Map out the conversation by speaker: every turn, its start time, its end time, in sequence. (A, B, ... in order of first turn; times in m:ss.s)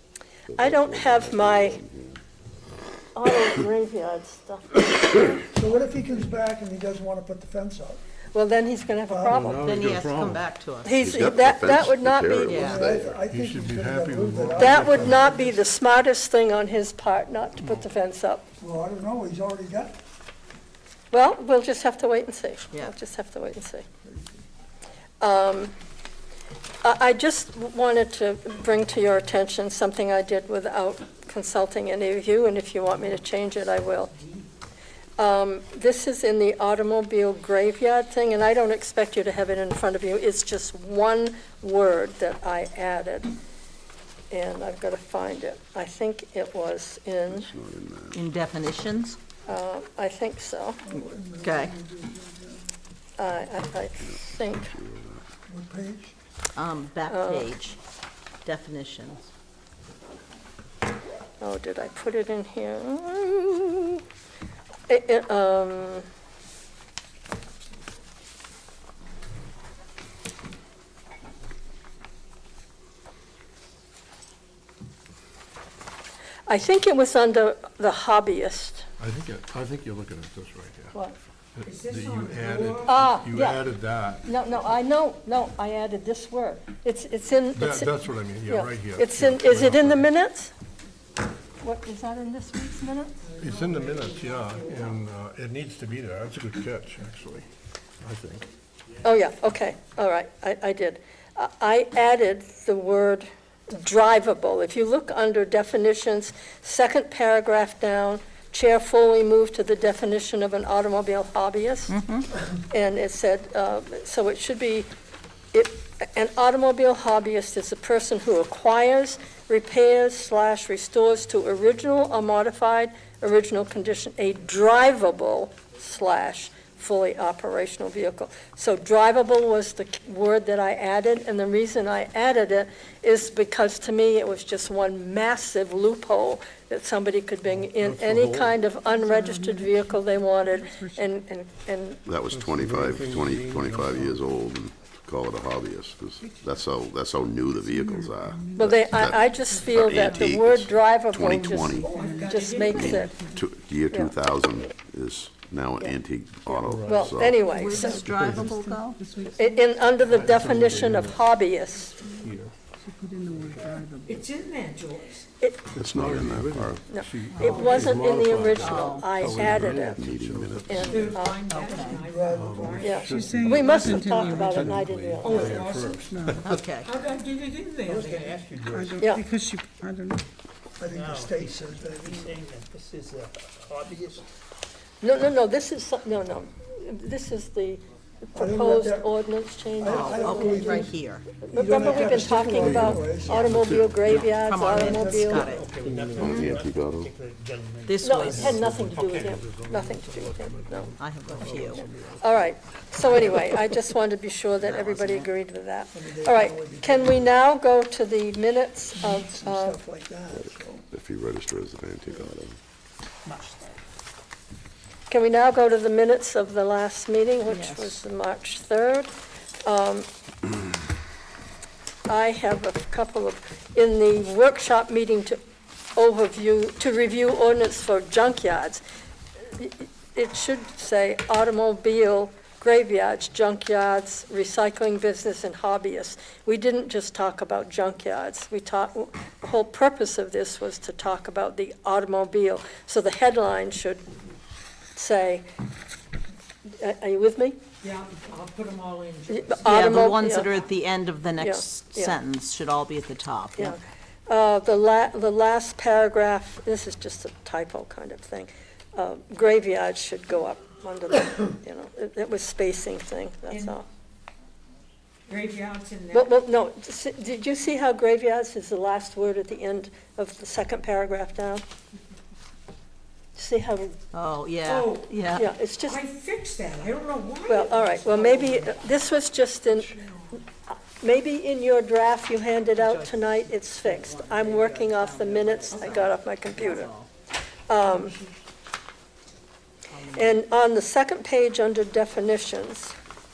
0:00.5-0:02.2 A
0:00.6-0:01.8 B
0:03.1-0:05.4 B
0:05.5-0:08.0 C
0:08.3-0:09.7 B
0:09.1-0:09.6 C
0:09.4-0:10.4 D
0:09.6-0:11.0 E
0:10.8-0:12.7 B
0:11.0-0:13.2 A
0:12.5-0:12.8 E
0:12.5-0:15.6 C
0:13.3-0:15.3 D
0:14.6-0:18.4 B
0:18.6-0:20.0 C
0:21.1-0:23.8 B
0:24.1-0:24.4 C
0:25.2-0:25.7 B
0:26.8-0:34.1 B
0:34.2-0:34.4 F
0:35.2-0:43.3 B
0:44.3-0:47.5 B
0:47.3-0:48.2 A
0:48.1-0:49.2 E
0:49.4-0:50.8 B
0:50.8-0:52.7 C
0:51.4-0:51.8 E
0:53.2-0:54.7 B
0:54.0-0:55.2 A
0:55.5-0:56.2 C
0:56.5-0:57.8 E
0:57.1-0:57.5 B
0:58.4-0:59.3 E
1:01.4-1:04.0 B
1:04.9-1:06.1 B
1:16.4-1:18.9 B
1:19.0-1:20.9 D
1:21.5-1:24.3 D
1:21.6-1:23.0 F
1:22.8-1:23.6 B
1:24.2-1:30.5 B
1:27.5-1:30.1 D
1:31.6-1:33.2 B
1:33.2-1:35.0 F
1:33.4-1:37.5 D
1:38.0-1:38.5 D
1:39.0-1:51.9 B
1:51.9-1:52.2 E
1:52.7-1:54.9 B
1:55.5-2:22.0 B
2:17.8-2:18.5 D
2:18.7-2:21.1 G
2:22.0-2:32.0 A
2:22.3-2:24.2 D
2:27.6-2:30.4 G
2:28.6-2:33.1 B
2:31.8-2:32.1 C
2:31.9-2:33.1 F
2:31.9-2:33.4 G
2:32.6-2:37.4 A
2:36.5-2:38.4 D
2:36.8-2:38.2 B
2:37.5-2:39.0 E
2:38.2-2:39.5 G
2:39.3-2:42.0 B
2:40.1-2:40.6 G
2:40.1-2:41.2 D
2:42.0-2:42.6 D
2:42.8-2:44.3 G
2:43.3-2:43.7 D
2:44.0-2:45.3 F
2:45.4-2:45.7 B
2:45.7-2:51.2 D
2:45.8-2:46.9 A
2:46.9-2:50.0 B
2:47.4-2:47.9 F
2:48.6-2:49.1 E
2:50.0-2:51.2 A
2:50.7-2:51.4 B
2:50.8-2:53.5 F
2:51.5-2:52.0 E
2:51.8-2:52.9 C
2:52.3-2:56.5 D
2:52.8-2:55.7 B
2:53.0-2:54.8 G
2:54.1-2:54.3 F
2:55.2-2:58.4 F
2:56.0-2:56.5 G
2:56.4-2:56.9 E
2:57.9-2:59.0 H
2:58.6-3:00.2 G
2:59.0-2:59.2 B
3:00.8-3:02.3 C
3:00.9-3:04.2 H
3:05.0-3:07.8 B
3:08.3-3:10.9 B
3:08.4-3:09.1 C
3:09.8-3:10.9 C
3:09.8-3:11.3 E
3:11.4-3:15.6 B
3:11.5-3:13.8 C
3:12.6-3:14.3 D
3:14.1-3:15.7 E
3:14.5-3:15.7 C
3:15.4-3:19.4 H
3:15.8-3:16.3 D
3:16.2-3:17.1 A
3:17.8-3:18.6 E
3:18.0-3:20.9 B
3:18.3-3:22.5 D
3:21.0-3:21.9 E
3:21.3-3:21.7 H
3:22.2-3:29.8 B
3:24.6-3:25.3 E
3:25.9-3:27.3 C
3:28.9-3:30.8 C
3:30.3-3:32.6 A
3:35.1-3:39.1 B
3:37.5-3:38.0 E
3:39.6-3:40.1 B
3:42.1-3:45.4 B
3:46.0-3:48.8 B
3:49.5-4:04.0 B
4:04.9-4:05.5 B
4:06.8-4:07.6 B
4:07.8-4:09.7 F
4:09.3-4:10.5 B
4:09.6-4:13.8 E
4:11.4-4:12.2 B
4:13.6-4:23.8 B
4:23.5-4:23.8 F
4:25.3-4:26.3 F
4:26.1-4:31.6 B
4:33.4-4:34.0 B
4:34.1-4:35.4 E
4:34.6-4:35.1 F
4:35.3-4:36.0 B
4:35.8-4:39.0 F
4:37.5-4:46.9 B
4:42.7-4:47.1 E
4:45.8-4:46.1 F
4:47.7-4:48.2 B
4:49.9-4:50.4 E
4:50.1-4:52.9 B